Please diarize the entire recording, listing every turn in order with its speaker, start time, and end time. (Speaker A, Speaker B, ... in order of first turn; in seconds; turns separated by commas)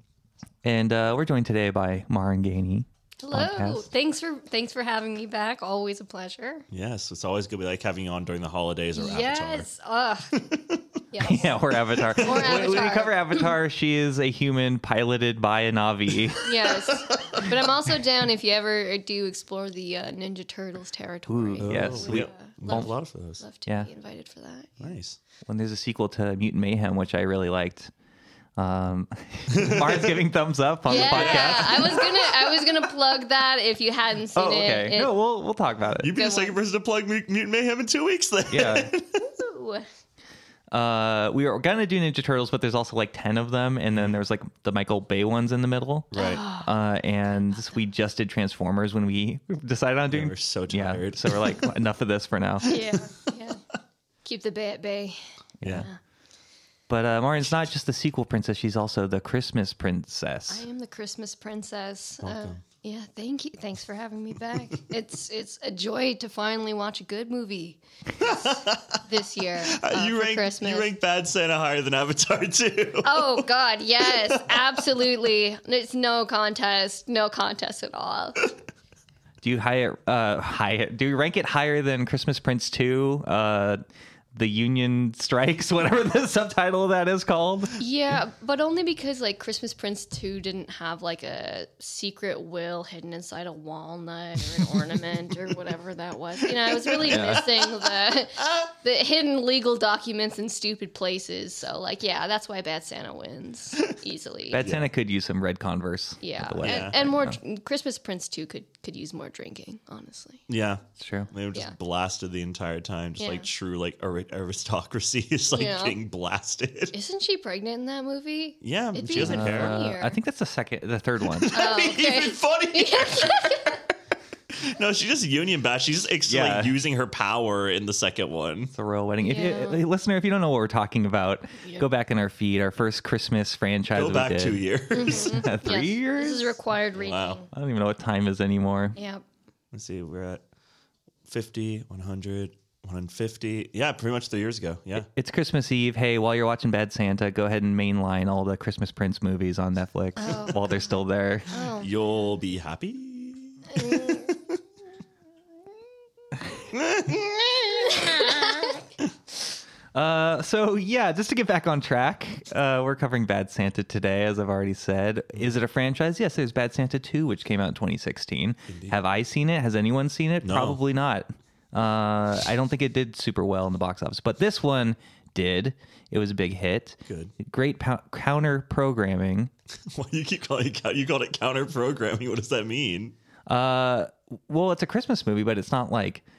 Speaker A: 0.6-3.9, Speaker B: 3.2-6.6, Speaker C: 6.7-9.7, Speaker B: 8.9-10.4, Speaker C: 10.3-10.8, Speaker B: 11.1-11.5, Speaker A: 11.2-16.5, Speaker C: 12.0-12.9, Speaker B: 12.2-13.5, Speaker B: 16.4-24.8, Speaker C: 16.6-17.7, Speaker A: 21.3-22.9, Speaker C: 21.6-23.4, Speaker C: 24.8-25.2, Speaker A: 25.4-27.9, Speaker A: 28.6-32.0, Speaker C: 29.5-30.2, Speaker B: 30.9-35.1, Speaker C: 30.9-32.7, Speaker A: 34.4-36.1, Speaker C: 36.0-39.2, Speaker B: 36.1-36.6, Speaker A: 38.5-38.9, Speaker B: 39.2-39.9, Speaker A: 40.7-52.8, Speaker C: 43.9-44.2, Speaker C: 46.1-46.4, Speaker B: 46.1-46.7, Speaker C: 50.1-51.7, Speaker B: 52.6-53.6, Speaker B: 54.2-55.2, Speaker A: 55.6-55.9, Speaker C: 55.6-55.9, Speaker A: 56.9-60.6, Speaker B: 60.5-70.9, Speaker C: 62.2-62.6, Speaker C: 68.2-69.0, Speaker C: 69.7-73.5, Speaker B: 73.0-78.5, Speaker C: 74.0-74.8, Speaker A: 79.4-83.8, Speaker A: 84.3-87.8, Speaker B: 87.8-104.7, Speaker C: 96.4-98.7, Speaker A: 97.0-97.4, Speaker A: 104.5-107.4, Speaker C: 104.6-104.9, Speaker B: 106.2-110.4, Speaker C: 106.6-107.0, Speaker C: 110.5-116.9, Speaker A: 111.0-111.3, Speaker B: 113.2-113.5, Speaker B: 115.5-116.0, Speaker B: 116.9-120.1, Speaker C: 118.6-119.8, Speaker A: 119.2-121.5, Speaker C: 121.2-123.8, Speaker B: 121.5-123.8, Speaker C: 124.5-128.7, Speaker A: 126.3-126.8, Speaker A: 128.8-136.6, Speaker B: 129.2-129.8, Speaker C: 133.9-135.4, Speaker B: 134.9-137.5, Speaker C: 136.9-137.4, Speaker A: 137.5-138.9, Speaker B: 138.9-139.2, Speaker C: 139.7-140.4, Speaker C: 141.2-145.1, Speaker A: 145.1-151.5, Speaker B: 150.2-150.9, Speaker B: 151.5-151.9, Speaker C: 151.8-154.6, Speaker B: 153.8-154.2, Speaker C: 156.7-158.1, Speaker B: 157.9-158.6, Speaker A: 159.9-179.5, Speaker C: 168.7-169.0, Speaker C: 170.4-170.8, Speaker C: 177.1-177.3, Speaker C: 179.9-183.1, Speaker A: 183.5-186.2